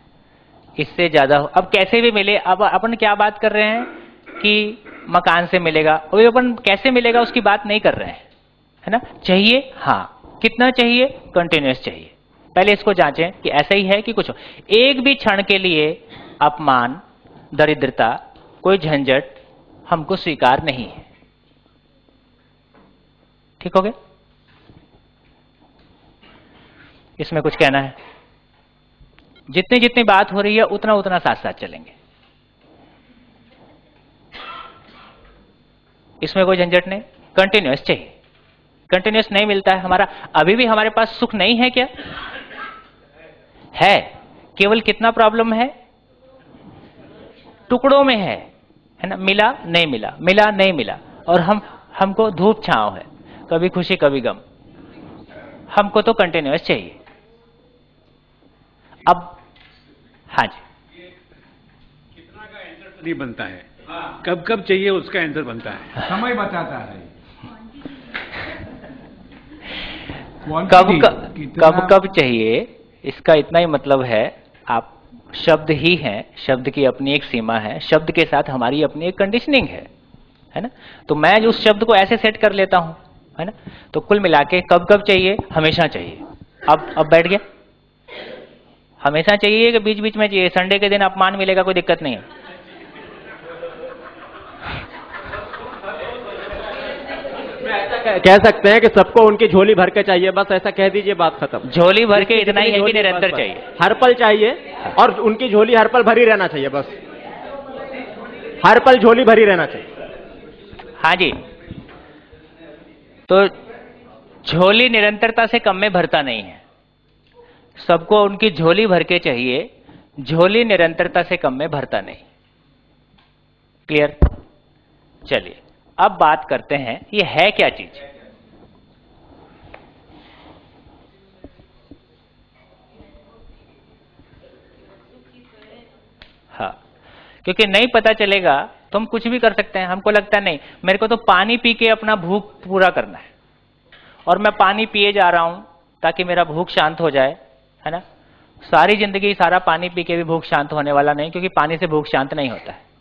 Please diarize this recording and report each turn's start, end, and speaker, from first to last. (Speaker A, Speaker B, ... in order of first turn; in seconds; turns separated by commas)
Speaker A: 0.8-8.2, Speaker A: 8.8-17.0, Speaker A: 17.5-21.1, Speaker A: 23.6-23.9, Speaker A: 27.2-27.9, Speaker A: 29.5-31.9, Speaker A: 36.2-38.1, Speaker A: 38.9-41.9, Speaker A: 43.7-45.7, Speaker A: 47.7-48.5, Speaker A: 49.0-54.4, Speaker A: 55.7-57.0, Speaker A: 59.0-59.3, Speaker A: 60.3-60.6, Speaker B: 62.3-67.1, Speaker B: 70.5-71.9, Speaker A: 70.5-79.9, Speaker A: 80.5-87.4, Speaker A: 89.0-92.2, Speaker C: 97.5-107.0, Speaker A: 101.7-103.7, Speaker C: 108.6-109.9, Speaker A: 111.0-111.4, Speaker A: 113.3-113.5, Speaker A: 114.4-116.6, Speaker A: 117.8-122.2, Speaker A: 123.9-124.2, Speaker A: 125.2-128.0, Speaker A: 136.5-136.8, Speaker A: 137.4-143.3, Speaker A: 144.3-148.0, Speaker A: 148.6-152.8